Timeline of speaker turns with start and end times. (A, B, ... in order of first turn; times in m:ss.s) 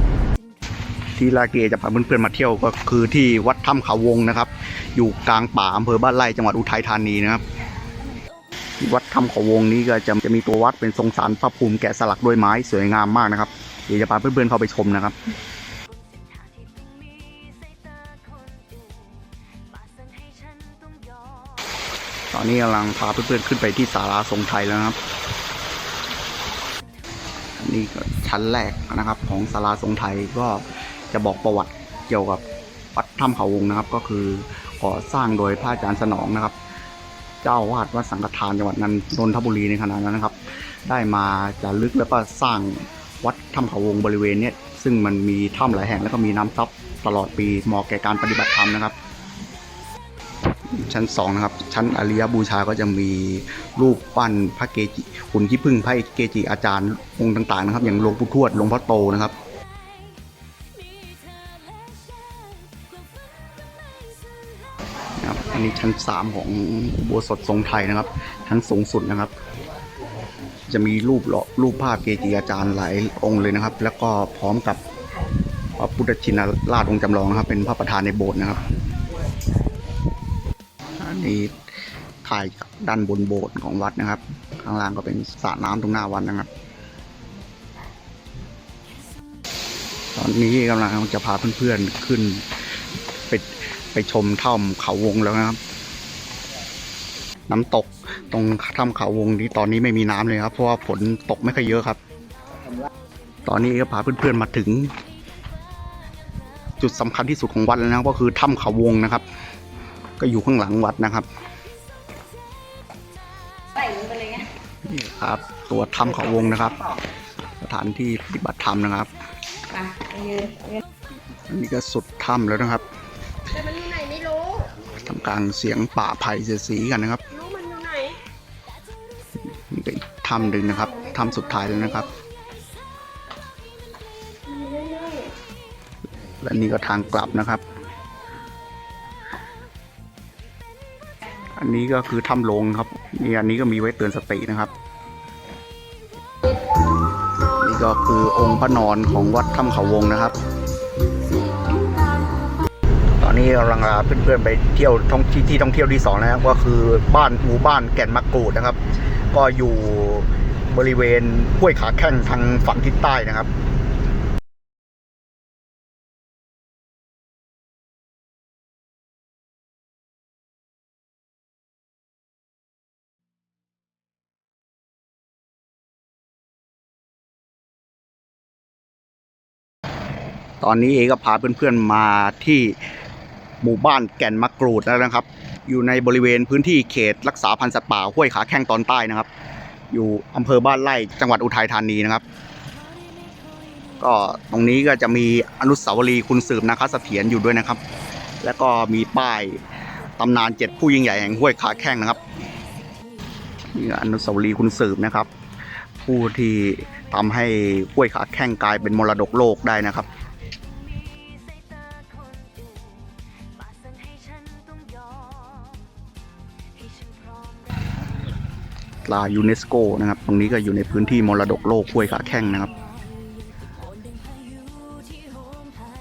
0:01.2-0:07.4 A
0:08.8-0:15.2 A
0:22.3-0:25.0 A
0:27.6-0:32.4 A
0:33.0-0:36.6 A
0:37.4-0:49.0 A
0:50.7-0:59.4 A
1:05.2-1:09.3 A
1:10.7-1:14.8 A
1:15.8-1:18.6 A
1:21.0-1:21.6 A
1:22.2-1:26.5 A
1:30.2-1:32.6 A
1:33.3-1:35.6 A
1:37.5-1:42.0 A
1:43.5-1:45.0 A
1:46.8-1:49.2 A
1:50.2-1:51.3 A
1:53.8-1:54.5 B
1:54.8-1:56.9 A
1:57.6-1:59.1 A
1:59.8-2:00.8 B
2:01.5-2:02.8 A
2:03.5-2:04.0 A
2:03.7-2:04.6 B
2:04.9-2:07.4 A
2:07.4-2:08.2 B
2:09.6-2:12.1 A
2:14.5-2:15.3 B
2:16.4-2:17.6 A
2:21.5-2:24.7 A
2:27.5-2:30.4 A
2:33.2-2:38.8 A
2:39.3-2:43.5 A
3:00.6-3:02.8 A
3:03.6-3:09.3 A
3:09.9-3:12.2 A
3:14.0-3:17.8 A
3:18.4-3:19.6 A
3:20.2-3:22.2 A
3:23.7-3:25.3 A
3:26.0-3:30.1 A
3:34.0-3:34.6 B
3:39.0-3:42.7 A